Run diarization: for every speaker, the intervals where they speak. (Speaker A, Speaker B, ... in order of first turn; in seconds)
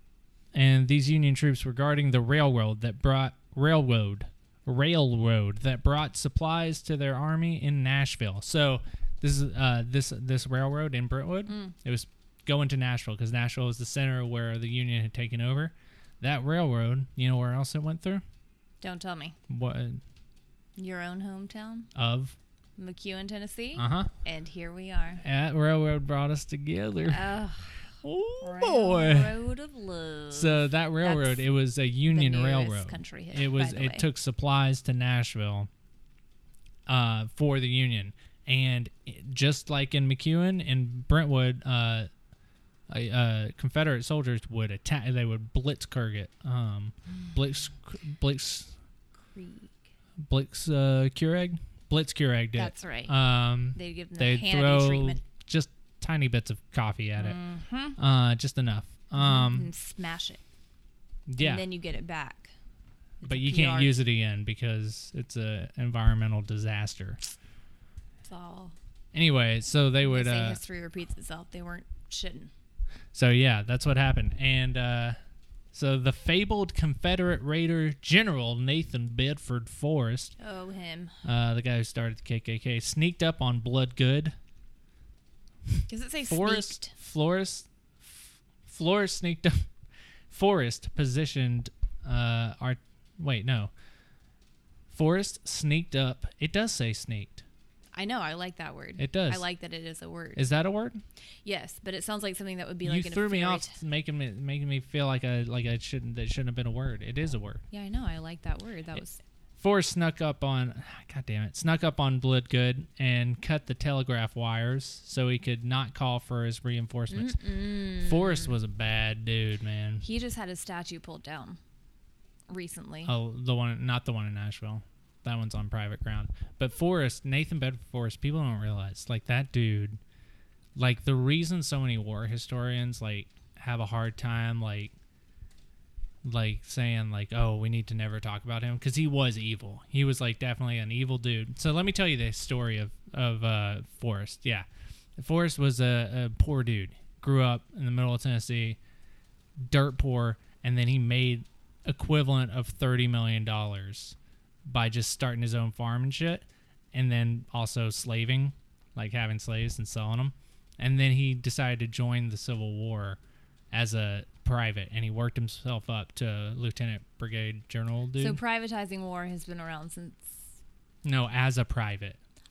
Speaker A: 0.5-18.2, 19.5-20.0, 21.9-22.4, 23.8-24.1, 25.2-27.3, 28.0-29.3, 30.3-35.7, 36.9-42.1, 42.9-48.7, 50.2-57.4, 58.0-59.7, 61.3-61.6, 63.2-67.2, 69.1-70.6, 73.1-75.2, 75.7-80.3, 81.2-84.3, 86.2-89.7, 90.3-93.7, 94.9-97.4, 99.0-99.4, 100.3-101.0, 102.8-107.6, 109.6-120.0, 123.0-130.0, 130.8-134.9, 136.2-148.8, 149.6-163.2, 163.7-168.4, 171.0-172.2
Speaker B: 11.4-11.8, 18.8-19.4, 20.8-21.9, 22.8-25.2, 27.1-27.9, 28.4-31.4, 32.1-34.0, 49.3-49.9, 52.5-53.2, 53.7-55.2, 57.1-58.0, 59.1-60.4, 61.4-62.5, 63.2-64.0, 68.2-68.7, 70.0-72.5, 80.4-81.2, 85.9-86.9, 97.9-100.5, 101.4-103.8, 107.7-109.2, 117.1-118.5, 120.0-121.6, 122.5-123.1, 168.2-170.4